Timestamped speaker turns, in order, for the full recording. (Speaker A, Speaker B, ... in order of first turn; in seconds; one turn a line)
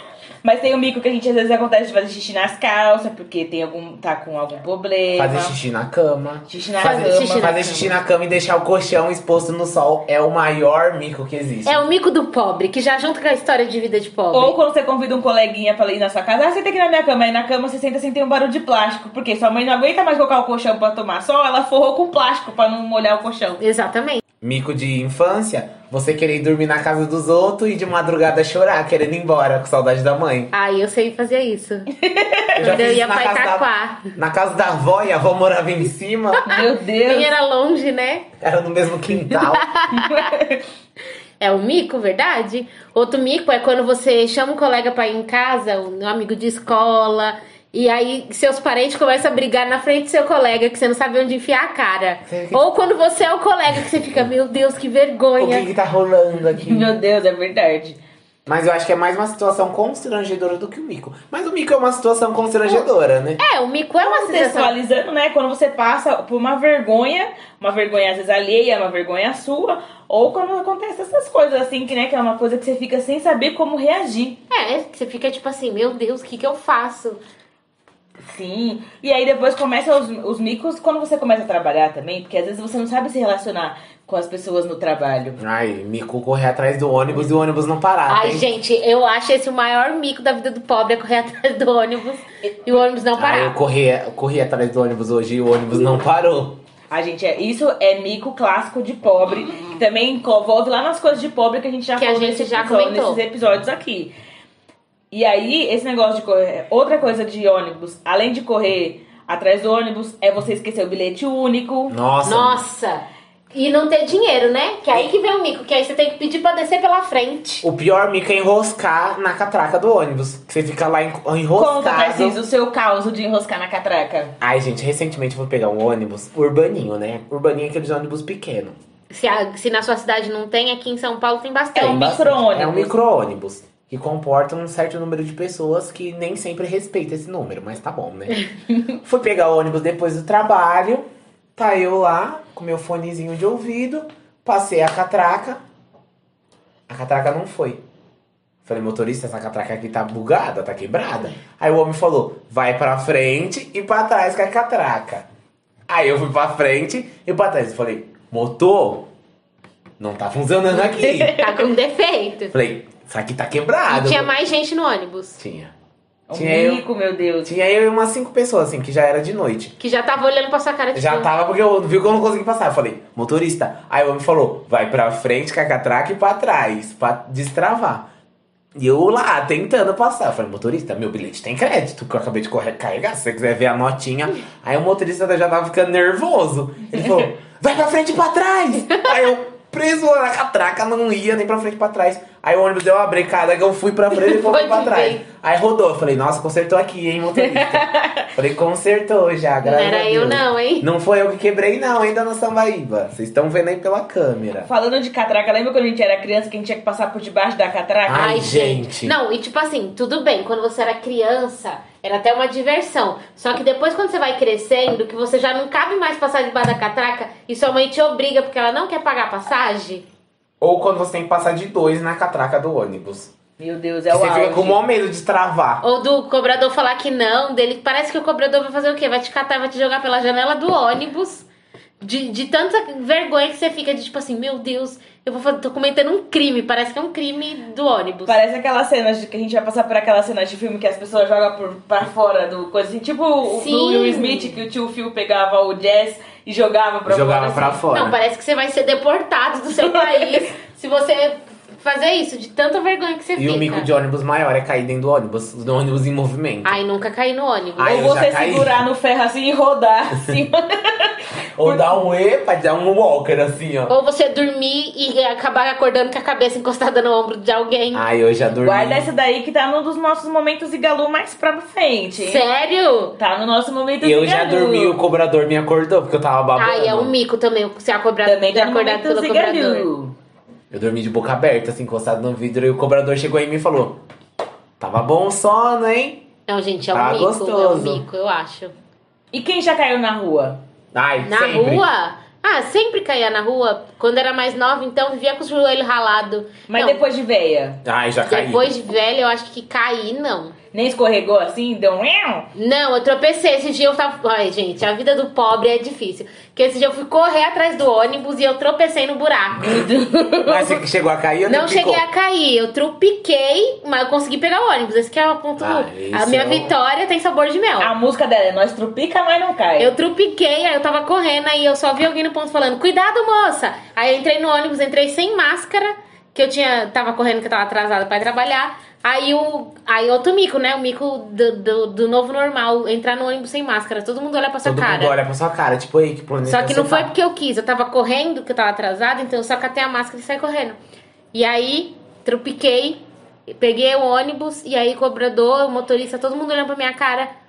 Speaker A: 0.4-5.6
Speaker B: 5.2-11.8
Speaker A: 6.5-7.5
Speaker C: 6.8-7.9
Speaker C: 11.7-14.6
Speaker A: 14.3-23.6
Speaker C: 23.6-24.2
Speaker B: 24.4-30.5
Speaker C: 30.5-31.9
Speaker A: 32.0-32.6
Speaker C: 32.6-34.1
Speaker B: 32.6-36.5
Speaker A: 36.5-37.3
Speaker C: 36.5-38.3
Speaker B: 38.4-39.7
Speaker C: 39.4-40.4
Speaker A: 40.0-40.6
Speaker C: 41.4-55.7
Speaker B: 52.3-52.6
Speaker B: 55.4-56.9
Speaker A: 56.6-58.0
Speaker B: 58.5-63.4
Speaker C: 63.4-64.7
Speaker A: 64.0-74.4
Speaker C: 74.5-77.2
Speaker A: 78.2-85.4
Speaker B: 85.4-88.5
Speaker C: 88.1-93.5
Speaker B: 93.2-96.6
Speaker A: 96.9-104.1
Speaker C: 102.0-103.2
Speaker A: 105.1-112.0
Speaker B: 111.9-112.6
Speaker C: 112.2-117.7
Speaker B: 117.6-122.4
Speaker A: 121.6-124.3
Speaker B: 124.4-128.8
Speaker C: 129.1-132.2
Speaker A: 131.8-132.9
Speaker B: 131.8-138.4
Speaker B: 139.0-145.6
Speaker B: 146.9-147.8
Speaker B: 148.7-155.2
Speaker B: 155.9-159.1
Speaker B: 160.0-161.5
Speaker A: 160.9-161.3
Speaker C: 161.2-162.5
Speaker B: 162.5-164.3
Speaker C: 163.9-165.4
Speaker B: 165.4-165.7
Speaker A: 166.3-167.5
Speaker B: 166.3-166.9
Speaker B: 167.4-169.8
Speaker C: 169.8-171.3
Speaker B: 170.9-178.1
Speaker B: 178.8-204.7
Speaker C: 194.2-195.2
Speaker A: 197.4-198.3
Speaker C: 199.6-200.9
Speaker A: 204.7-208.4
Speaker B: 208.1-209.2
Speaker C: 208.1-220.0
Speaker B: 220.6-223.3
Speaker A: 223.6-224.8
Speaker B: 224.1-225.8
Speaker C: 225.8-231.5
Speaker C: 232.0-238.4
Speaker A: 238.3-247.8
Speaker C: 243.5-244.6
Speaker B: 247.1-248.2
Speaker C: 247.9-253.9
Speaker A: 249.8-250.5
Speaker B: 253.4-256.8
Speaker C: 256.6-258.1
Speaker B: 257.8-258.8
Speaker A: 257.8-261.9
Speaker B: 261.6-263.9
Speaker C: 263.9-268.0
Speaker B: 267.9-269.1
Speaker A: 268.6-272.4
Speaker C: 272.2-273.2
Speaker A: 273.2-275.0
Speaker B: 274.0-277.1
Speaker C: 276.6-279.9
Speaker A: 278.2-280.1
Speaker B: 280.7-284.0
Speaker B: 284.8-286.3
Speaker C: 286.5-288.7
Speaker B: 286.9-288.0
Speaker A: 289.3-290.6
Speaker B: 290.9-291.9
Speaker C: 291.2-297.0
Speaker A: 296.7-297.8
Speaker B: 297.9-298.7
Speaker C: 298.3-300.6
Speaker A: 300.7-302.5
Speaker C: 302.6-309.9
Speaker A: 309.6-310.8
Speaker B: 310.5-312.0
Speaker C: 311.5-317.9
Speaker B: 315.6-316.8
Speaker A: 317.8-319.9
Speaker C: 319.8-335.2
Speaker B: 334.6-337.1
Speaker C: 336.5-340.8
Speaker C: 341.3-347.3